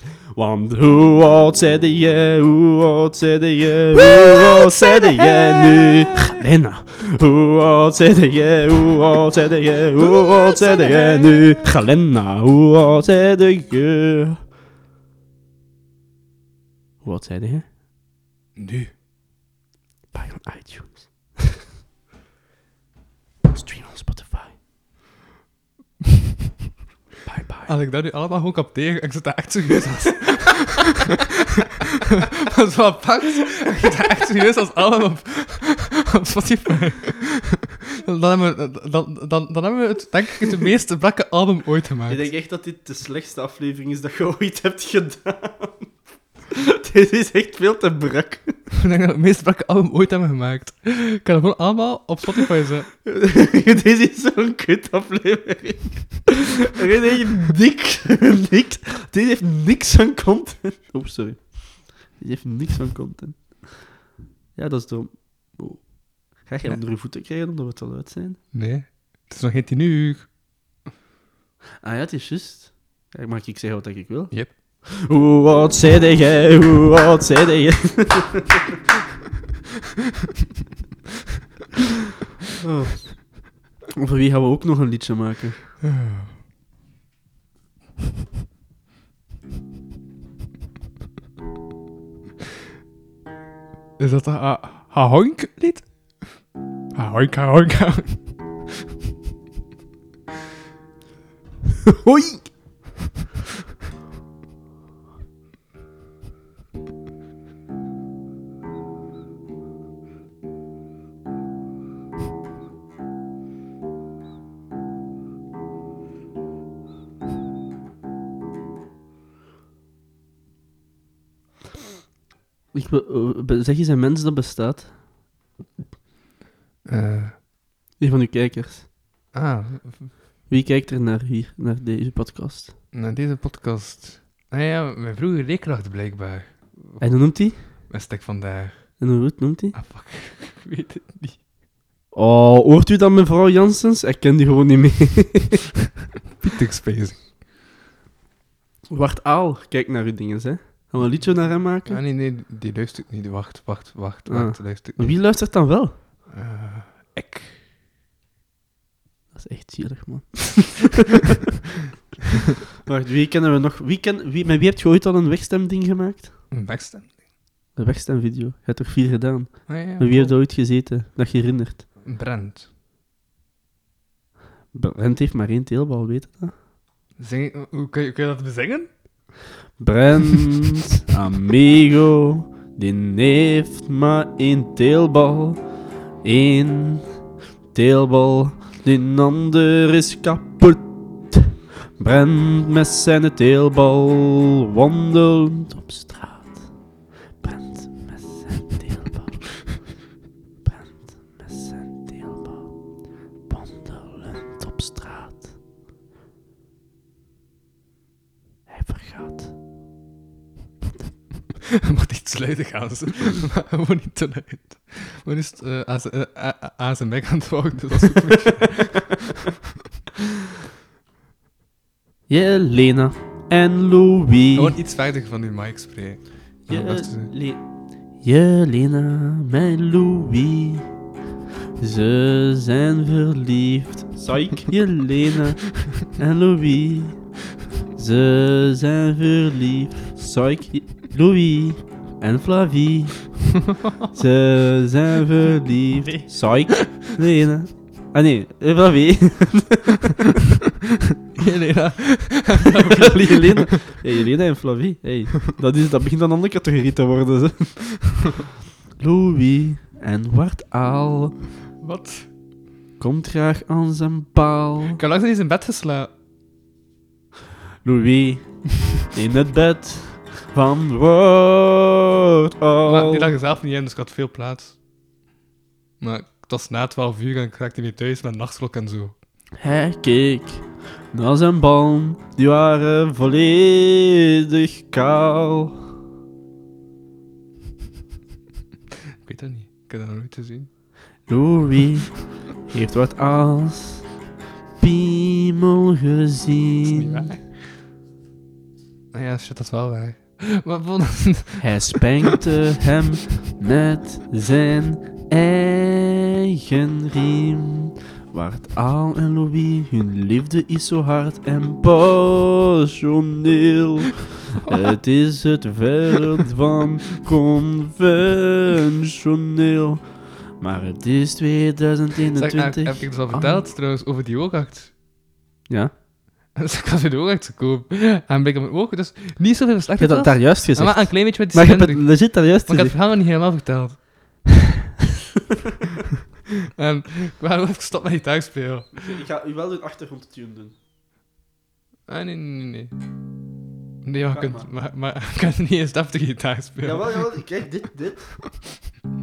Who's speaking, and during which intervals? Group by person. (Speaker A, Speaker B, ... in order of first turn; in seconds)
Speaker A: 0.3-14.4, 17.0-17.6, 20.1-21.6, 23.4-24.6, 27.2-27.7, 42.1-45.9, 46.5-48.6, 53.0-63.9, 64.5-68.4, 71.8-78.7, 82.6-85.6, 101.8-102.5, 122.7-125.0, 128.0-128.9, 130.5-132.7, 137.0-137.6, 139.0-139.8, 142.1-145.7, 148.9-152.0, 154.3-156.0, 159.3-161.3, 162.8-166.3, 167.8-171.9, 174.7-176.5, 179.8-185.6, 186.2-187.0, 187.7-196.7, 197.4-199.8, 200.6-202.7, 203.5-205.5, 208.7-209.5, 218.0-219.0, 222.3-224.8, 226.7-227.6, 228.2-230.8, 231.8-237.2, 238.0-243.3, 244.1-250.4, 252.8-258.2, 259.0-261.4, 263.0-265.0, 267.8-273.3, 279.6-285.8, 291.3-294.1, 294.8-297.3, 301.6-320.1, 320.6-323.6, 325.7-325.9, 330.0-332.9, 338.9-340.7, 344.3-344.7, 346.8-348.4
Speaker B: 4.1-5.9, 10.0-11.7, 18.6-18.9, 27.7-30.9, 32.3-42.3, 48.8-52.9, 68.5-70.3, 85.8-86.3, 94.0-96.2, 96.9-98.2, 126.8-127.3, 129.3-130.1, 132.9-139.0, 139.7-141.4, 146.4-147.2, 151.9-155.2, 156.3-157.6, 166.5-167.1, 169.7-170.4, 172.0-172.7, 177.2-178.9, 211.8-219.0, 224.6-227.3, 243.7-244.1, 246.1-247.1, 251.3-253.9, 261.8-262.2, 264.9-266.1, 272.8-274.7, 276.0-279.1, 289.2-290.7, 296.8-297.4, 299.1-302.4, 322.4-324.9, 326.5-334.0, 336.8-338.9, 342.1-342.9, 344.0-347.4